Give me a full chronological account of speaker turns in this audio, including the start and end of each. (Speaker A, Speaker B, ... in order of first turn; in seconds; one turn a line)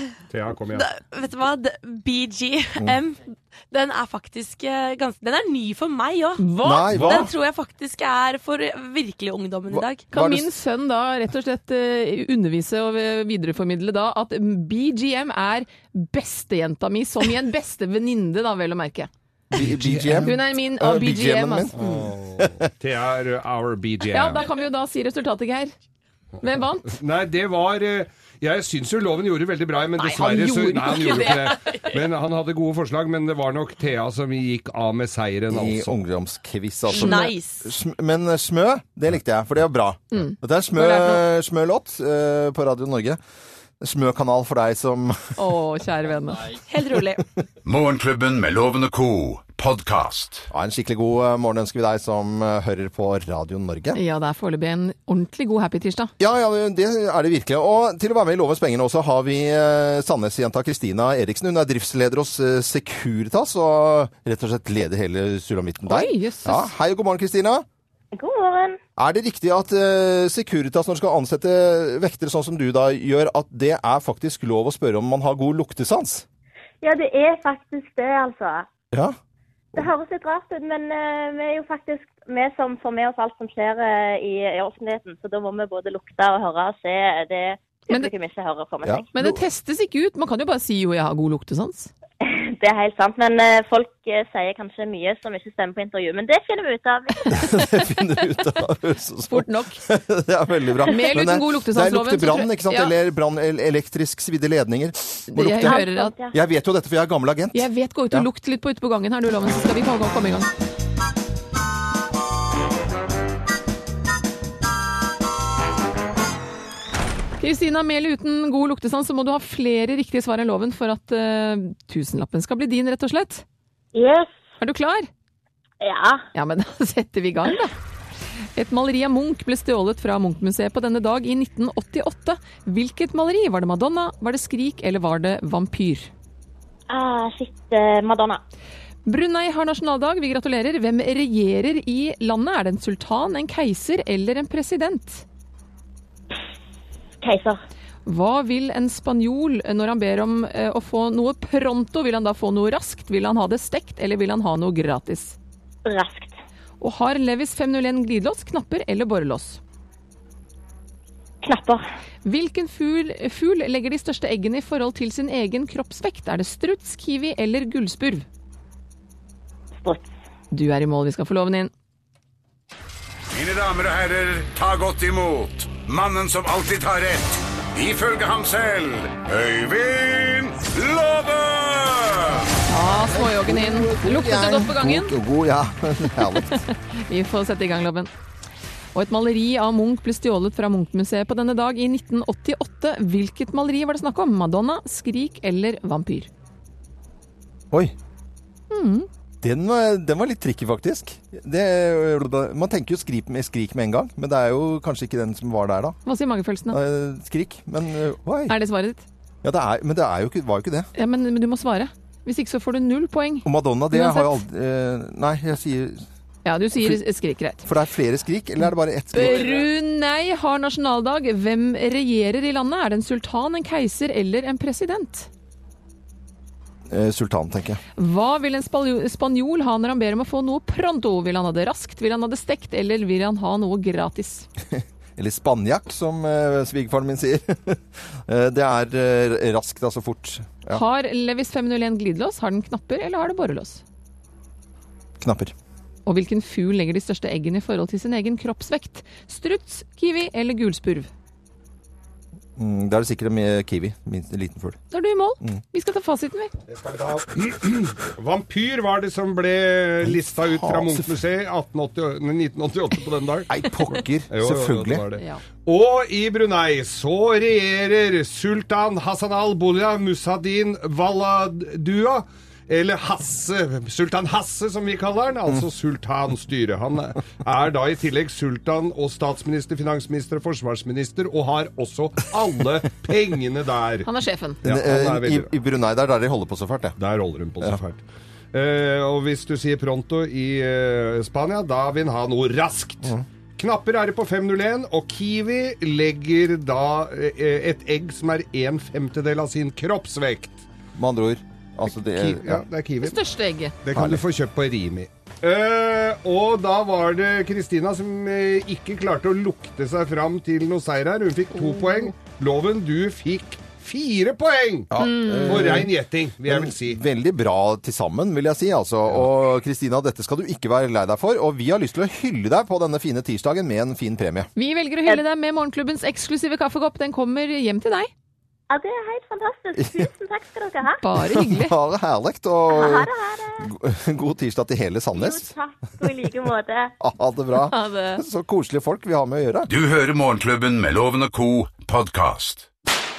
Speaker A: 0.3-0.9
Speaker B: 0.7-10.1
Speaker C: 6.4-7.0
Speaker D: 6.6-7.3
Speaker A: 6.9-7.3
Speaker D: 9.7-10.5
Speaker C: 10.1-19.1
Speaker D: 19.5-21.7
Speaker A: 19.6-20.2
Speaker C: 20.1-22.1
Speaker A: 21.7-24.4
Speaker D: 22.4-22.6
Speaker C: 24.1-25.7
Speaker C: 26.4-26.9
Speaker A: 26.8-36.0
Speaker C: 30.0-31.6
Speaker D: 35.5-43.2
Speaker B: 36.9-37.7
Speaker C: 36.9-37.3
Speaker C: 40.1-41.2
Speaker D: 43.8-45.3
Speaker C: 45.4-46.5
Speaker B: 46.5-47.2
Speaker E: 47.6-50.5
Speaker D: 50.5-54.0
Speaker C: 53.9-56.1
Speaker D: 56.2-67.6
Speaker C: 65.8-66.7
Speaker F: 68.1-68.8
Speaker D: 69.0-76.2
Speaker F: 76.8-78.7
Speaker F: 79.7-89.1
Speaker D: 88.8-89.4
Speaker C: 89.1-91.9
Speaker F: 92.2-97.4
Speaker D: 97.3-108.3
Speaker C: 97.4-97.7
Speaker C: 99.3-99.8
Speaker C: 100.8-102.9
Speaker C: 105.3-106.1
Speaker F: 105.6-106.3
Speaker C: 107.5-110.5
Speaker C: 117.4-123.4
Speaker F: 123.9-124.3
Speaker C: 124.6-125.1
Speaker F: 125.8-126.2
Speaker C: 126.3-127.7
Speaker C: 128.6-136.1
Speaker F: 136.9-138.4
Speaker C: 139.1-145.2
Speaker F: 147.2-147.6
Speaker C: 148.0-155.3
Speaker F: 155.8-156.4
Speaker C: 156.8-159.6
Speaker F: 161.4-161.8
Speaker C: 162.2-168.2
Speaker F: 169.8-170.1
Speaker C: 170.5-171.7
Speaker E: 173.3-182.5
Speaker C: 182.7-185.1
Speaker D: 183.0-186.6
Speaker C: 186.2-188.1
Speaker C: 188.9-196.3
Speaker C: 198.7-199.1
Speaker D: 199.4-206.0
Speaker C: 206.0-206.8
Speaker D: 206.7-208.6
Speaker C: 208.5-209.1
Speaker D: 209.4-210.9
Speaker C: 210.9-214.4
Speaker D: 213.4-216.0
Speaker C: 216.4-217.7
Speaker D: 217.6-219.7
Speaker C: 219.1-225.3
Speaker D: 226.9-227.8
Speaker C: 227.9-234.5
Speaker D: 234.7-240.8
Speaker C: 240.7-243.8
Speaker D: 245.2-245.5
Speaker C: 246.1-251.1
Speaker D: 252.6-254.8
Speaker C: 254.9-256.5
Speaker A: 256.7-263.5
Speaker D: 260.0-261.1
Speaker D: 263.5-265.0
Speaker A: 264.3-284.1
Speaker C: 265.2-265.4
Speaker C: 284.0-284.6
Speaker A: 284.6-285.5
Speaker D: 284.6-286.9
Speaker A: 287.0-300.6
Speaker D: 300.9-302.6
Speaker A: 301.9-303.2
Speaker C: 303.0-303.8
Speaker A: 303.8-317.0
Speaker D: 303.9-304.2
Speaker D: 314.9-315.9
Speaker C: 315.0-315.8
Speaker D: 316.4-324.5
Speaker C: 324.6-328.1
Speaker F: 328.7-331.0
Speaker D: 329.8-330.1
Speaker C: 331.0-331.7
Speaker D: 331.2-333.1
Speaker F: 332.7-333.6
Speaker D: 333.6-335.5
Speaker F: 335.1-336.9
Speaker D: 337.0-339.7
Speaker C: 337.6-338.2
Speaker E: 339.7-342.7